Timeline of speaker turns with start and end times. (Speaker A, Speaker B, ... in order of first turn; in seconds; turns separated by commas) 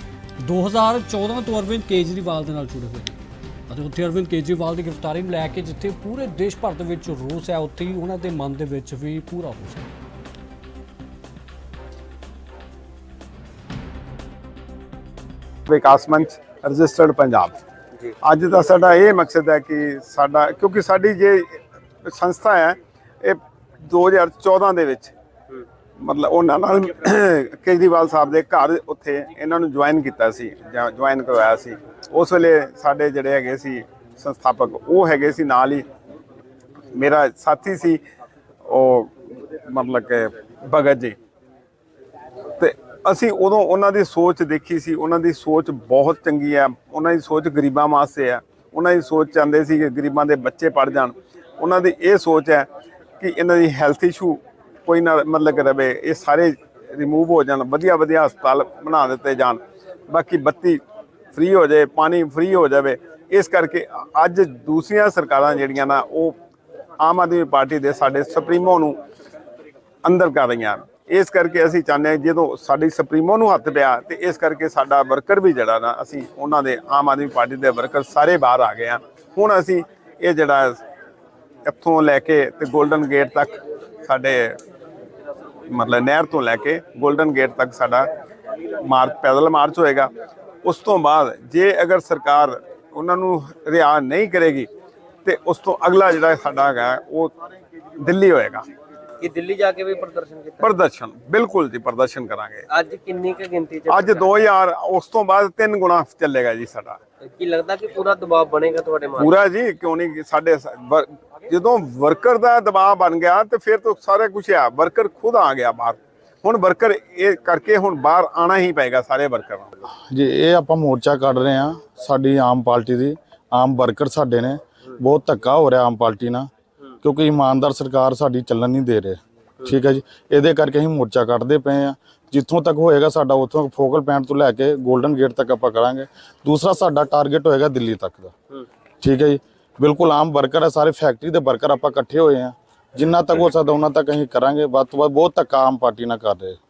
Speaker A: 0.4-9.9, Speaker B: 15.7-17.6, Speaker B: 18.2-25.1, Speaker B: 26.0-35.8, Speaker B: 36.9-38.0, Speaker B: 38.6-41.1, Speaker B: 42.6-52.7, Speaker B: 53.2-60.8, Speaker B: 61.3-66.3, Speaker B: 67.0-69.0, Speaker B: 70.0-80.8, Speaker B: 81.6-84.6, Speaker B: 85.7-88.1, Speaker B: 88.8-90.1, Speaker B: 90.6-94.7, Speaker B: 95.2-97.3, Speaker B: 98.0-98.6, Speaker C: 99.2-100.7, Speaker B: 100.6-102.7, Speaker C: 102.7-104.4, Speaker B: 103.9-107.0, Speaker C: 107.2-109.4, Speaker B: 109.2-119.8, Speaker D: 119.9-126.5, Speaker D: 127.0-138.3, Speaker D: 139.0-146.6